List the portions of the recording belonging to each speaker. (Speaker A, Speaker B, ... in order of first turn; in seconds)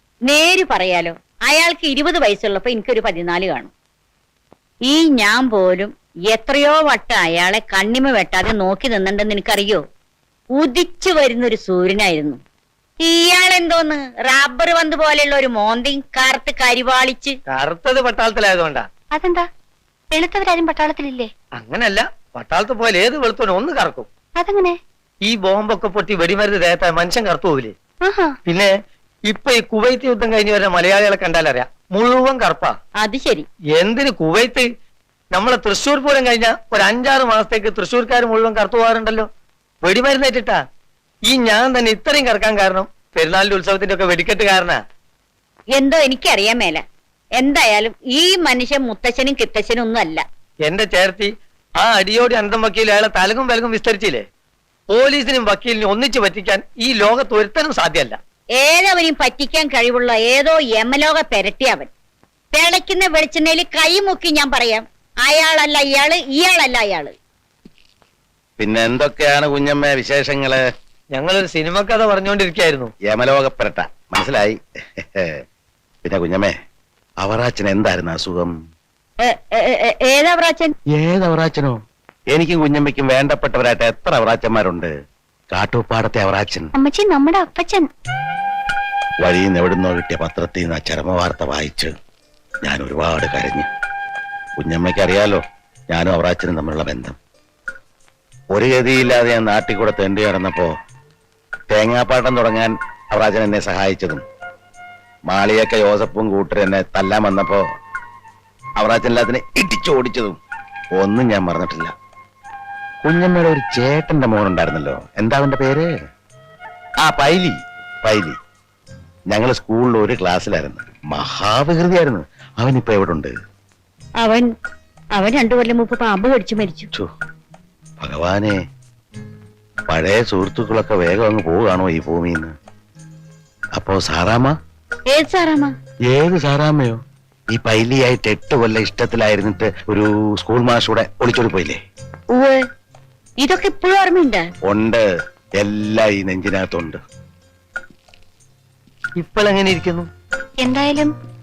Speaker A: 0.2-3.7, 4.9-9.8, 10.5-12.4, 13.0-17.4, 33.0-33.5, 45.7-46.8, 47.4-50.2, 58.6-61.9, 62.5-67.1, 79.2-80.7, 124.2-124.5, 125.2-126.9, 135.1-135.7, 142.3-142.7, 143.4-144.5
Speaker B: 17.5-18.9, 21.6-24.1, 25.2-27.7, 28.4-28.7, 29.3-32.7, 33.8-34.6, 35.3-39.3, 39.8-40.6, 41.3-44.8, 50.6-54.2, 54.9-58.2, 71.1-72.9, 149.2-150.1
Speaker C: 19.1-19.5, 20.1-21.3, 24.4-24.8, 28.0-28.3, 86.7-87.9, 150.6-151.1
Speaker D: 68.6-70.6, 73.0-75.3, 76.0-76.5, 77.2-78.5, 81.0-81.7, 82.3-84.9, 85.5-86.7, 89.2-91.9, 92.6-93.7, 94.6-97.2, 98.5-100.7, 101.7-104.2, 105.3-107.6, 108.8-110.4, 111.0-111.9, 113.0-115.9, 117.0-118.4, 119.3-123.3, 128.0-128.6, 129.9-132.5, 133.8-134.5, 136.1-137.0, 137.5-141.8, 144.6-145.0, 145.6-147.0